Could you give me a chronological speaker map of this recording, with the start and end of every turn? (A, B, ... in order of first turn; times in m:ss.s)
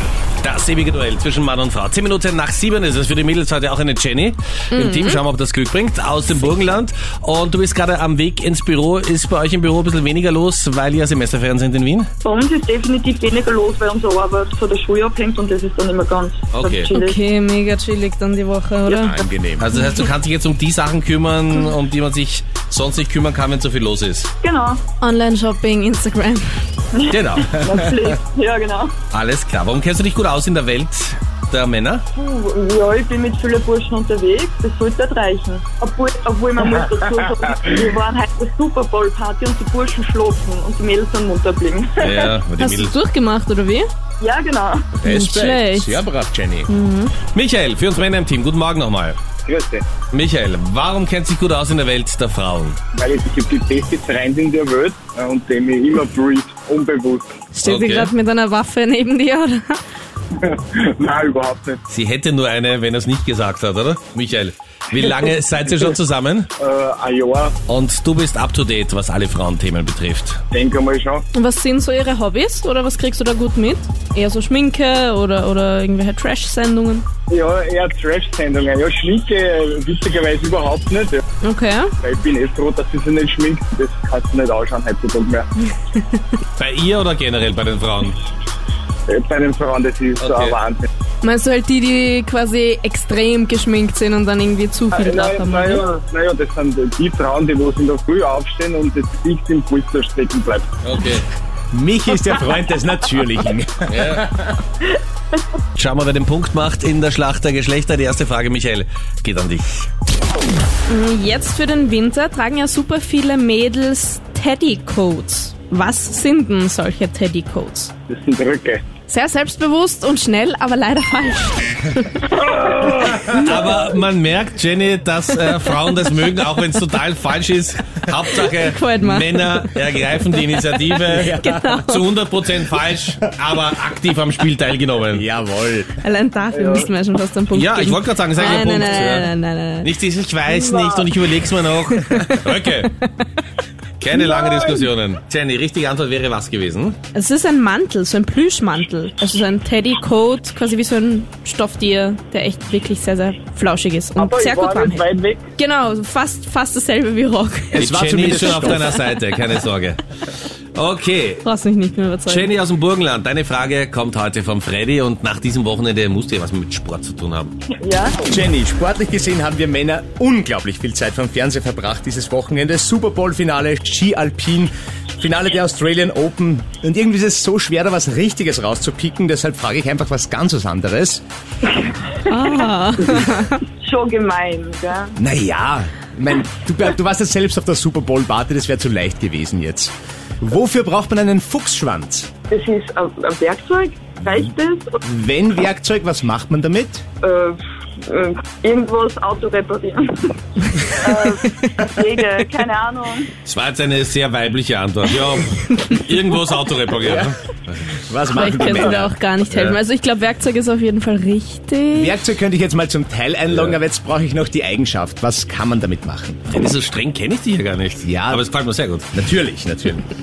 0:00.4-0:12.1 A
0:04.7-0:05.2 B
0:12.2-0:17.2 C
0:16.5-0:16.9 A
0:16.9-0:19.2 B
0:18.9-0:19.7 D
0:19.6-0:24.3 A
0:24.4-0:24.8 C
0:25.0-0:26.5 B
0:26.9-0:28.9 C
0:27.1-0:27.5 A
0:29.1-0:32.0 A
0:32.1-0:42.3 C
0:42.0-0:43.0 A
0:42.6-0:43.8 B
0:44.2-0:44.9 C
0:45.0-0:46.7 D
0:45.0-0:46.0 B
0:46.7-0:47.1 B
0:47.3-0:49.2 A
0:49.4-0:49.8 E
0:50.1-0:52.8 A
0:52.9-0:57.4 E
0:57.5-0:59.8 B
0:57.6-0:58.1 A
1:00.4-1:01.8 E
1:01.9-1:06.5 A
1:06.6-1:07.5 E
1:07.7-1:10.4 A
1:10.5-1:11.2 E
1:11.3-1:17.0 B
1:17.3-1:21.2 E
1:21.4-1:21.9 B
1:22.0-1:25.5 E
1:26.6-1:28.2 A
1:29.1-1:30.9 E
1:30.2-1:30.6 A
1:31.2-1:35.8 B
1:34.9-1:40.7 E
1:40.8-1:41.2 A
1:41.7-1:44.5 D
1:43.9-1:44.3 A
1:45.7-1:49.9 A
1:50.9-1:57.9 B
1:58.1-1:58.8 E
1:59.1-2:03.8 B
2:02.3-2:02.9 E
2:03.3-2:15.3 A
2:08.4-2:12.1 B
2:11.1-2:11.7 D
2:15.1-2:16.0 D
2:16.0-2:19.9 B
2:16.5-2:16.9 E
2:17.5-2:22.9 A
2:21.9-2:22.4 B
2:24.0-2:27.0 A
2:24.1-2:24.8 E
2:27.1-2:35.0 B
2:34.2-2:35.5 E
2:35.6-2:37.8 B
2:37.7-2:38.9 D
2:37.7-2:40.0 A
2:40.7-2:41.4 A
2:41.4-2:42.5 B
2:42.2-2:47.6 A
2:47.8-2:48.2 C
2:48.2-3:01.2 D
3:02.2-3:03.6 B
3:03.8-3:05.1 C
3:05.2-3:12.3 D
3:12.5-3:15.0 C
3:15.0-3:17.0 D
3:17.2-3:23.3 C
3:23.4-3:27.8 A
3:27.0-3:27.3 D
3:28.0-3:29.1 D
3:28.3-3:32.1 B
3:29.5-3:29.8 A
3:31.9-3:36.4 D
3:33.5-3:33.8 A
3:36.5-3:39.1 A
3:38.0-3:38.4 D
3:39.1-3:40.1 D